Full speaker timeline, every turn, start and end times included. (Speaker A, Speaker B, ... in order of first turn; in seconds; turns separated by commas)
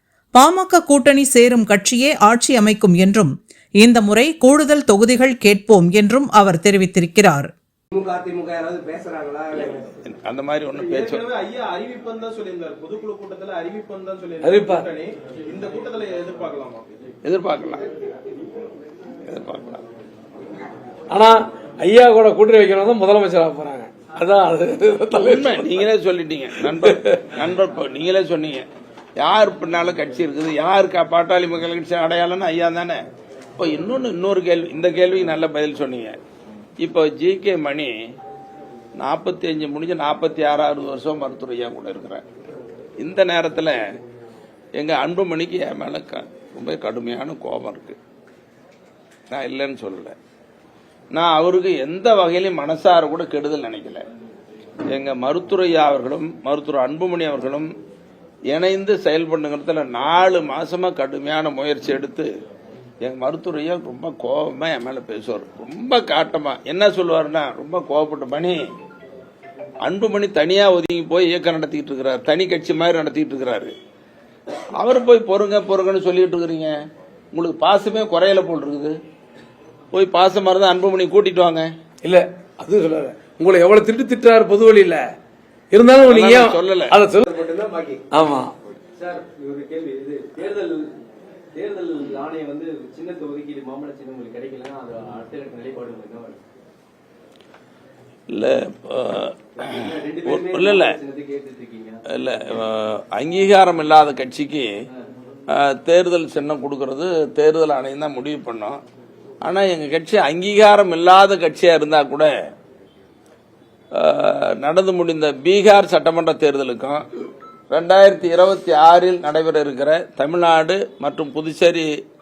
Speaker A: 0.3-7.5, Speaker B: 7.9-9.9, Speaker C: 10.0-11.3, Speaker D: 10.9-16.9, Speaker E: 14.4-14.9, Speaker C: 17.2-17.9, Speaker C: 19.3-19.8, Speaker E: 21.1-25.6, Speaker C: 25.1-28.6, Speaker E: 26.6-27.0, Speaker C: 29.2-33.0, Speaker C: 33.6-36.2, Speaker C: 36.8-37.9, Speaker C: 39.0-42.2, Speaker C: 43.0-43.8, Speaker C: 44.8-48.0, Speaker C: 49.3-50.1, Speaker C: 51.1-54.0, Speaker C: 54.9-57.7, Speaker C: 58.5-62.3, Speaker C: 63.0-68.6, Speaker C: 69.8-73.7, Speaker C: 74.7-76.7, Speaker C: 77.3-78.9, Speaker C: 79.9-81.7, Speaker E: 82.0-85.0, Speaker E: 85.7-87.2, Speaker C: 86.0-87.0, Speaker B: 87.2-88.0, Speaker E: 88.1-88.5, Speaker B: 89.0-90.9, Speaker B: 91.5-96.4, Speaker C: 98.3-100.9, Speaker B: 99.8-102.0, Speaker C: 102.1-104.7, Speaker C: 105.5-108.8, Speaker C: 109.4-112.3, Speaker C: 113.9-117.0, Speaker C: 117.7-121.9